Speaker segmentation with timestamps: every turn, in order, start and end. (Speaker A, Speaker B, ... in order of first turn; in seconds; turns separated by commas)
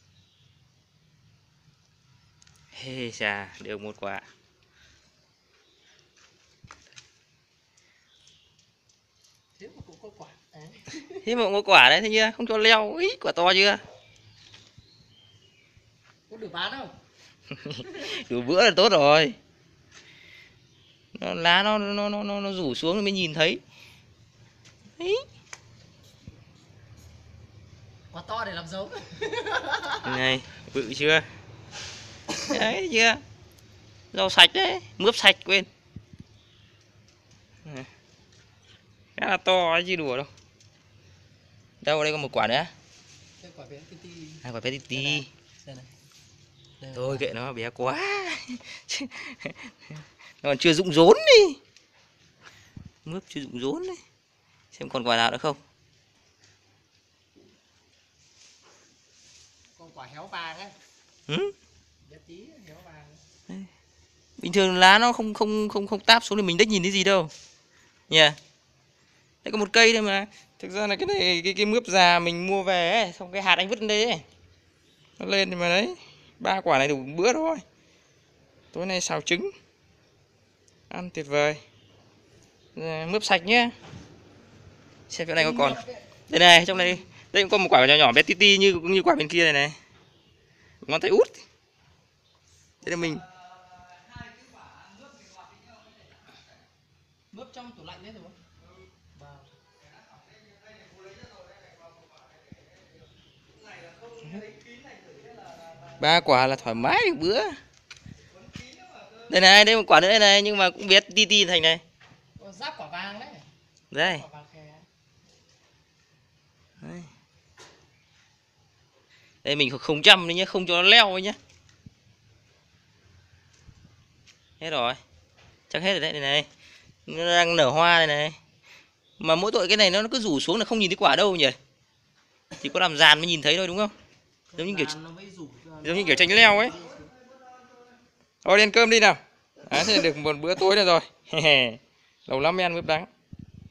Speaker A: 2.7-4.2, Speaker B: 9.6-11.2, Speaker A: 11.2-13.8, Speaker B: 16.3-16.9, Speaker A: 17.5-19.4, Speaker A: 21.1-23.6, Speaker A: 25.0-25.2, Speaker B: 28.1-30.2, Speaker A: 30.0-31.3, Speaker A: 32.4-33.2, Speaker A: 34.1-35.7, Speaker A: 39.2-40.3, Speaker A: 41.8-42.7, Speaker B: 43.4-45.9, Speaker A: 44.4-45.3, Speaker B: 46.8-47.3, Speaker A: 46.9-51.6, Speaker A: 53.0-54.0, Speaker A: 54.7-55.6, Speaker B: 59.8-60.8, Speaker A: 61.3-61.5, Speaker B: 62.0-63.2, Speaker A: 64.4-67.3, Speaker A: 68.1-68.4, Speaker A: 69.4-74.2, Speaker A: 75.2-77.6, Speaker A: 78.7-79.5, Speaker A: 80.9-81.6, Speaker A: 82.8-83.8, Speaker A: 85.1-89.8, Speaker B: 85.4-86.0, Speaker A: 90.8-91.4, Speaker A: 92.8-93.2, Speaker B: 97.3-98.4, Speaker B: 99.1-99.5, Speaker A: 106.0-107.6, Speaker A: 109.3-111.8, Speaker B: 112.4-113.5, Speaker A: 113.9-114.2, Speaker B: 114.0-114.9, Speaker A: 116.8-117.1, Speaker A: 119.4-121.4, Speaker A: 124.6-125.0, Speaker A: 125.7-126.5, Speaker A: 127.1-128.4, Speaker A: 129.2-131.6, Speaker A: 132.6-133.9, Speaker B: 134.5-137.1, Speaker A: 134.6-134.9, Speaker A: 135.8-136.8, Speaker A: 138.4-143.1